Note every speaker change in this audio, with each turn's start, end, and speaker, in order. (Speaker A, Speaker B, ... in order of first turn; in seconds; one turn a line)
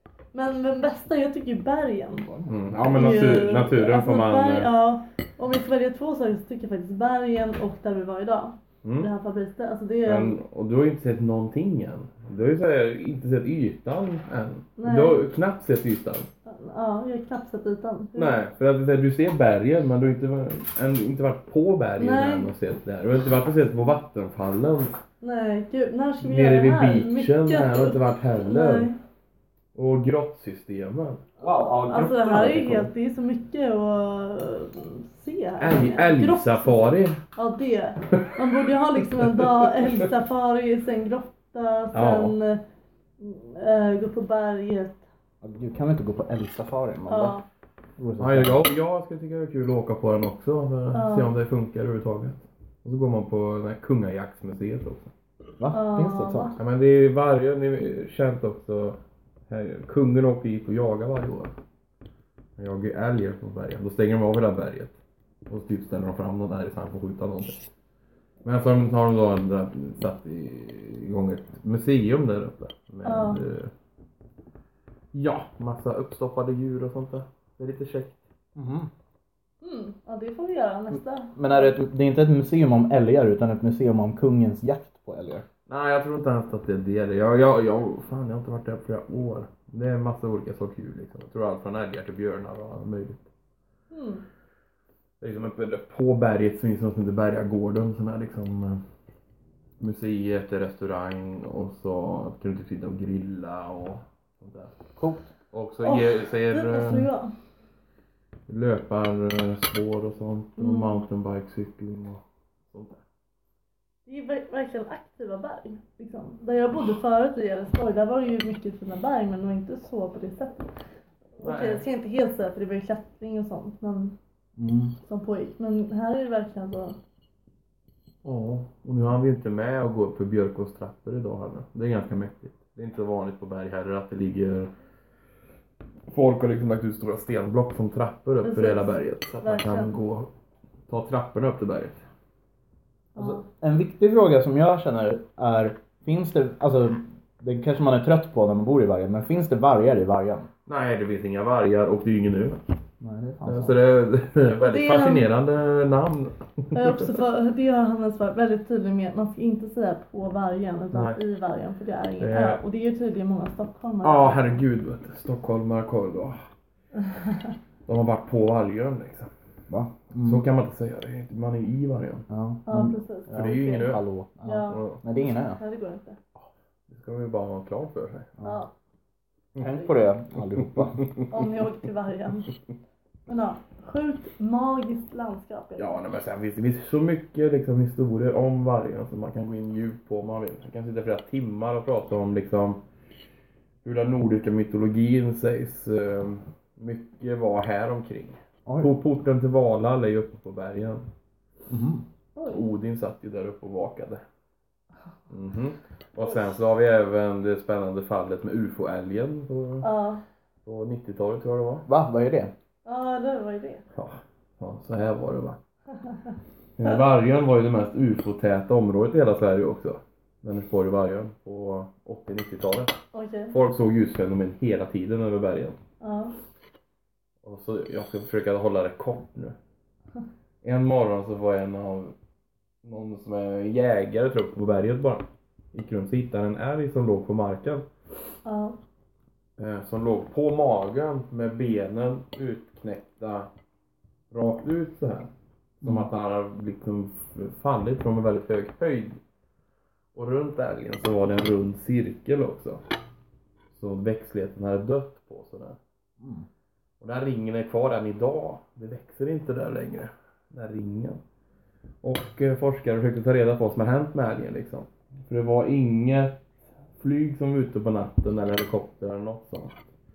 Speaker A: 0.3-10.4
Speaker B: 2.4-2.8
Speaker C: 2.5-4.7
Speaker C: 8.8-9.1
Speaker C: 10.0-16.3
Speaker A: 14.8-15.2
Speaker A: 16.5-18.4
Speaker C: 18.1-24.9
Speaker A: 22.0-22.5
Speaker A: 25.2-29.0
Speaker C: 26.2-28.9
Speaker C: 29.7-31.2
Speaker B: 31.4-32.9
Speaker A: 31.8-42.6
Speaker C: 35.6-37.2
Speaker C: 38.2-38.8
Speaker C: 39.3-40.0
Speaker C: 41.9-42.4
Speaker A: 43.2-45.0
Speaker B: 45.4-47.4
Speaker A: 47.1-47.4
Speaker B: 48.0-48.6
Speaker C: 48.2-55.1
Speaker A: 50.9-51.3
Speaker B: 55.6-56.5
Speaker A: 55.7-56.6
Speaker C: 56.5-61.5
Speaker C: 62.6-65.0
Speaker C: 65.5-67.6
Speaker C: 68.4-73.7
Speaker A: 73.0-73.4
Speaker C: 75.1-78.2
Speaker B: 78.5-78.9
Speaker A: 79.6-81.8
Speaker B: 80.9-85.4
Speaker C: 85.7-93.2
Speaker A: 93.9-94.2
Speaker C: 95.2-98.8
Speaker C: 99.8-104.8
Speaker B: 105.0-105.2
Speaker C: 105.5-107.1
Speaker A: 105.8-107.3
Speaker C: 108.5-113.0
Speaker A: 110.6-111.0
Speaker A: 114.0-120.7
Speaker A: 121.4-124.2
Speaker C: 121.4-121.8
Speaker B: 124.6-125.0
Speaker A: 125.0-127.0
Speaker C: 128.2-134.7
Speaker C: 136.1-140.3
Speaker A: 138.4-139.9
Speaker C: 140.9-142.0
Speaker A: 143.1-143.4
Speaker B: 143.2-150.5
Speaker C: 150.7-152.6
Speaker B: 153.0-153.8
Speaker C: 153.4-157.2
Speaker A: 154.6-155.2
Speaker A: 156.7-164.5
Speaker C: 160.9-161.2
Speaker C: 162.2-162.6
Speaker C: 164.0-166.3
Speaker A: 167.0-167.5
Speaker C: 167.8-169.3
Speaker B: 169.7-170.4
Speaker C: 170.2-172.2
Speaker B: 172.3-175.6
Speaker A: 172.7-173.9
Speaker C: 173.3-174.0
Speaker A: 174.4-174.9
Speaker C: 174.7-175.0
Speaker A: 175.4-176.2
Speaker C: 176.9-178.3
Speaker A: 178.4-178.7
Speaker B: 179.6-181.1
Speaker C: 180.8-181.2
Speaker A: 181.3-182.5
Speaker A: 183.3-185.9
Speaker C: 185.8-192.8
Speaker C: 193.8-201.1
Speaker B: 198.7-198.9
Speaker B: 201.7-202.0
Speaker A: 202.3-202.7
Speaker C: 202.5-204.2
Speaker C: 205.3-209.9
Speaker A: 209.8-210.2
Speaker C: 210.6-211.8
Speaker B: 211.8-212.5
Speaker A: 212.8-213.8
Speaker C: 213.9-215.6
Speaker C: 216.8-222.9
Speaker A: 223.1-223.5
Speaker C: 223.5-225.8
Speaker A: 226.0-226.3
Speaker C: 227.4-229.6
Speaker C: 230.6-232.1
Speaker C: 232.8-237.8
Speaker A: 238.4-238.8
Speaker C: 239.6-243.5
Speaker C: 244.3-249.2
Speaker C: 250.1-252.8
Speaker C: 253.7-255.8
Speaker B: 256.2-256.5
Speaker C: 257.0-261.2
Speaker C: 262.0-266.4
Speaker C: 266.9-269.8